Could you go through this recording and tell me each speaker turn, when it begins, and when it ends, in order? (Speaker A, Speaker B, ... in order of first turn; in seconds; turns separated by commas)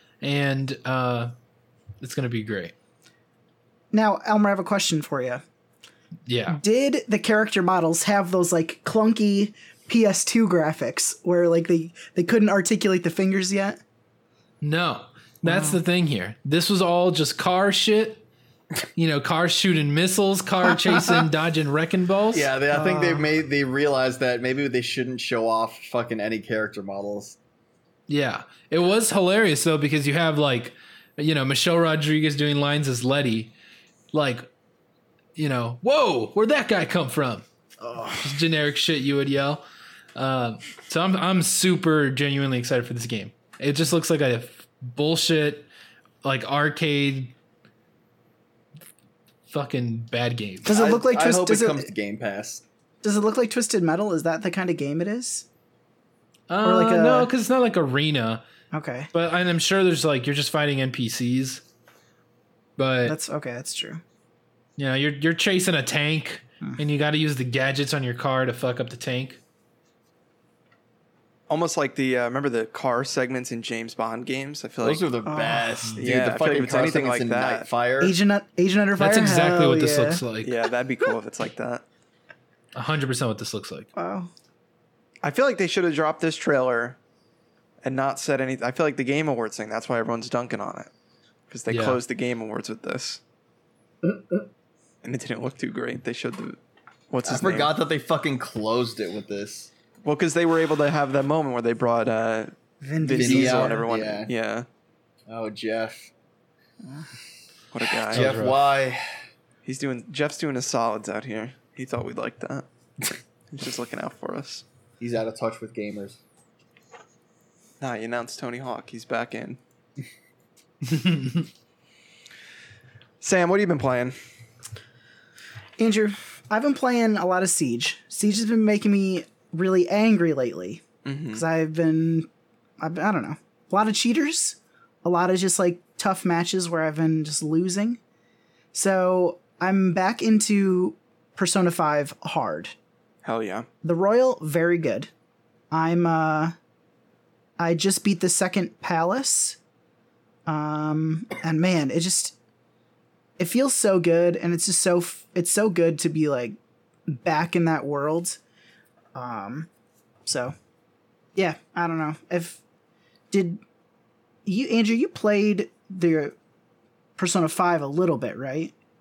Speaker A: 0.2-1.3, Speaker A: 2.0-2.7, Speaker B: 3.9-5.4, Speaker A: 6.2-6.6, Speaker B: 6.5-13.8, Speaker A: 14.6-18.2, Speaker B: 15.4-15.8, Speaker A: 18.9-22.5, Speaker C: 22.3-27.4, Speaker B: 22.7-23.3, Speaker A: 28.1-33.5, Speaker A: 34.1-34.5, Speaker A: 35.4-37.4, Speaker B: 37.8-38.2, Speaker A: 38.1-39.6, Speaker A: 40.1-45.7, Speaker A: 46.2-47.3, Speaker A: 49.5-50.7, Speaker B: 50.6-51.9, Speaker C: 50.7-52.6, Speaker B: 53.0-55.5, Speaker A: 56.5-58.4, Speaker B: 56.6-57.3, Speaker B: 58.7-59.1, Speaker A: 59.1-61.6, Speaker A: 62.8-63.2, Speaker B: 63.0-64.0, Speaker A: 64.8-69.4, Speaker D: 71.5-75.1, Speaker C: 74.8-78.2, Speaker B: 75.2-75.9, Speaker D: 76.0-77.7, Speaker B: 78.0-80.2, Speaker A: 79.0-80.5, Speaker D: 80.4-81.8, Speaker A: 82.7-83.9, Speaker B: 83.9-84.3, Speaker D: 85.2-87.0, Speaker D: 87.8-90.9, Speaker D: 91.5-93.2, Speaker A: 91.7-92.0, Speaker C: 94.0-94.4, Speaker D: 95.0-96.6, Speaker D: 97.1-97.7, Speaker C: 97.2-99.7, Speaker D: 100.0-104.7, Speaker B: 102.8-103.8, Speaker C: 103.1-104.3, Speaker C: 105.3-106.1, Speaker D: 107.7-108.4, Speaker C: 108.1-109.0, Speaker A: 108.1-108.6, Speaker D: 109.6-112.6, Speaker D: 113.5-114.6, Speaker C: 115.0-116.2, Speaker D: 117.8-119.6, Speaker D: 123.2-124.1, Speaker B: 125.8-132.3, Speaker D: 131.0-131.4, Speaker B: 132.8-138.0, Speaker B: 138.7-142.7, Speaker D: 143.2-143.7, Speaker B: 143.8-145.1, Speaker B: 145.7-146.5, Speaker B: 147.6-149.6, Speaker B: 150.4-152.3, Speaker B: 153.4-156.6, Speaker B: 157.1-158.4, Speaker B: 159.1-159.7, Speaker B: 160.2-160.5, Speaker B: 161.3-162.6, Speaker B: 163.3-163.6, Speaker B: 164.4-166.3, Speaker B: 167.2-168.7